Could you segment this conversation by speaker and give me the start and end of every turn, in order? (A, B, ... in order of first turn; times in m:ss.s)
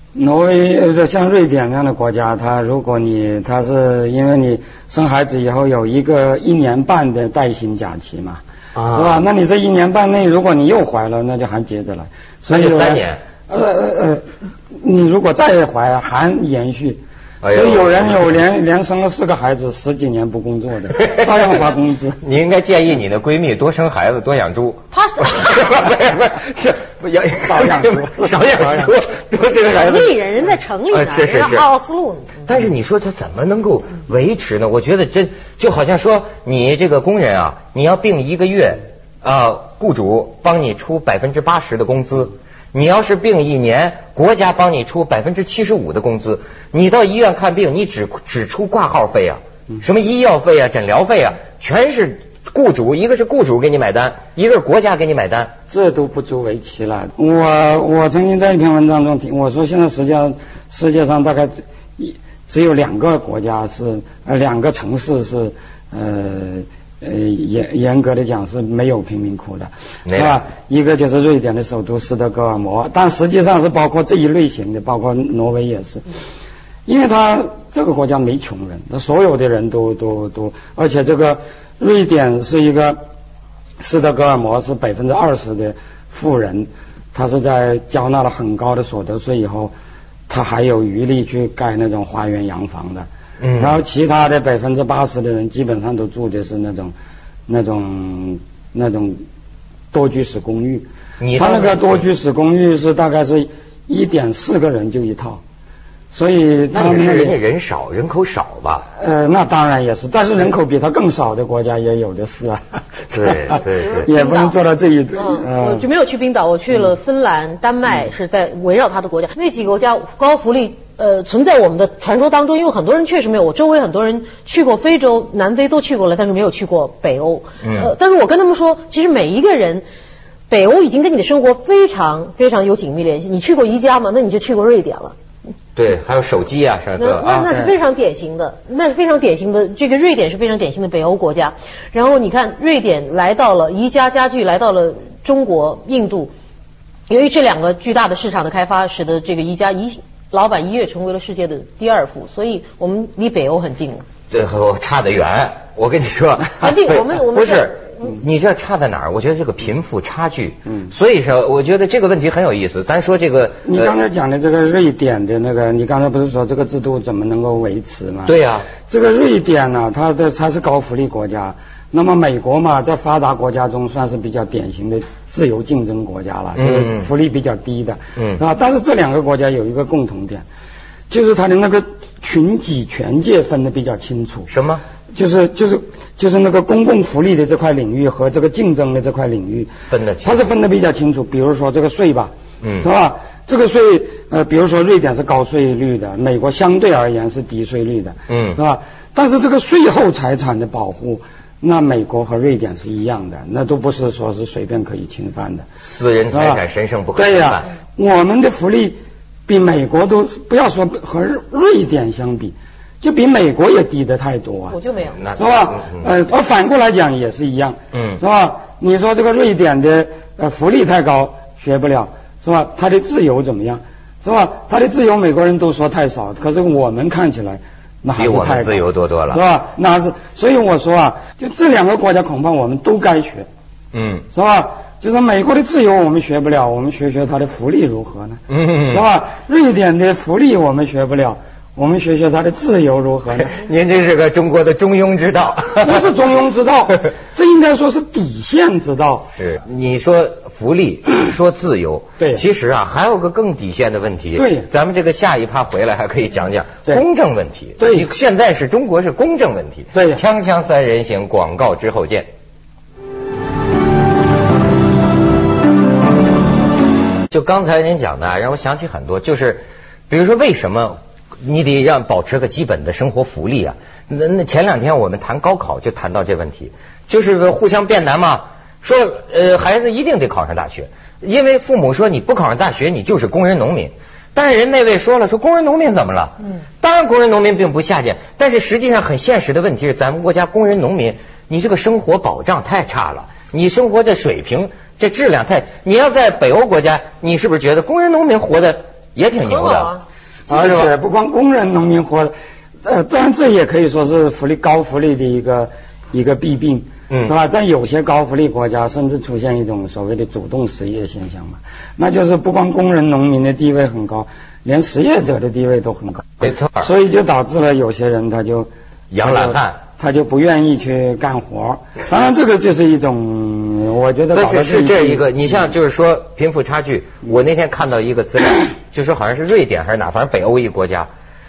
0:00.1-0:22.2 A
0:08.7-0:09.2 B
0:12.5-0:13.2 B
0:17.4-0:18.2 B
0:21.0-0:21.5 B
0:22.2-0:30.2 B
0:24.9-0:25.7 C
0:27.3-0:28.9 A
0:29.7-0:32.4 C
0:30.9-0:31.6 B
0:32.4-0:55.5 B
0:55.7-1:16.0 A
1:10.0-1:10.4 B
1:16.8-1:23.0 A
1:23.8-1:29.7 A
1:30.3-1:36.9 A
1:33.4-1:33.8 B
1:37.5-1:39.2 A
1:39.9-1:45.4 A
1:41.2-1:42.0 B
1:46.1-1:47.4 A
1:46.7-1:48.8 B
1:49.0-1:55.8 A
1:53.1-1:54.1 B
1:53.7-1:54.5 C
1:55.2-2:09.8 C
2:07.6-2:07.9 B
2:10.5-2:15.1 C
2:15.8-2:17.7 B
2:17.0-2:26.3 C
2:27.1-2:34.0 C
2:34.3-2:43.9 B
2:36.6-2:38.1 C
2:43.6-3:00.4 A
2:48.2-2:48.7 B
2:56.6-2:57.1 B
2:58.2-2:58.4 B
3:01.1-3:04.5 A
3:04.5-3:04.8 B
3:05.1-3:09.7 A
3:09.9-3:10.5 B
3:10.2-3:25.7 A
3:12.6-3:12.9 B
3:18.3-3:18.6 B
3:25.9-3:27.7 B
3:26.3-3:26.6 A
3:27.1-3:34.8 A
3:34.7-3:35.2 C
3:35.2-3:36.1 B
3:35.3-3:53.5 A
3:37.9-3:38.2 B
3:48.2-3:49.4 B
3:53.9-3:54.2 B
3:54.3-4:03.6 A
3:58.5-3:59.1 B
4:03.4-4:06.0 B
4:05.8-4:09.3 A
4:09.3-4:22.3 B
4:12.2-4:12.4 A
4:14.3-4:14.7 A
4:17.8-4:18.1 A
4:19.9-4:20.2 A
4:27.3-4:59.9 B
4:59.4-5:00.0 C
5:00.5-5:00.9 B
5:00.5-5:02.3 A
5:02.8-5:18.7 A
5:16.4-5:16.9 B
5:19.1-5:19.8 B
5:19.2-5:25.7 A
5:24.3-5:31.1 B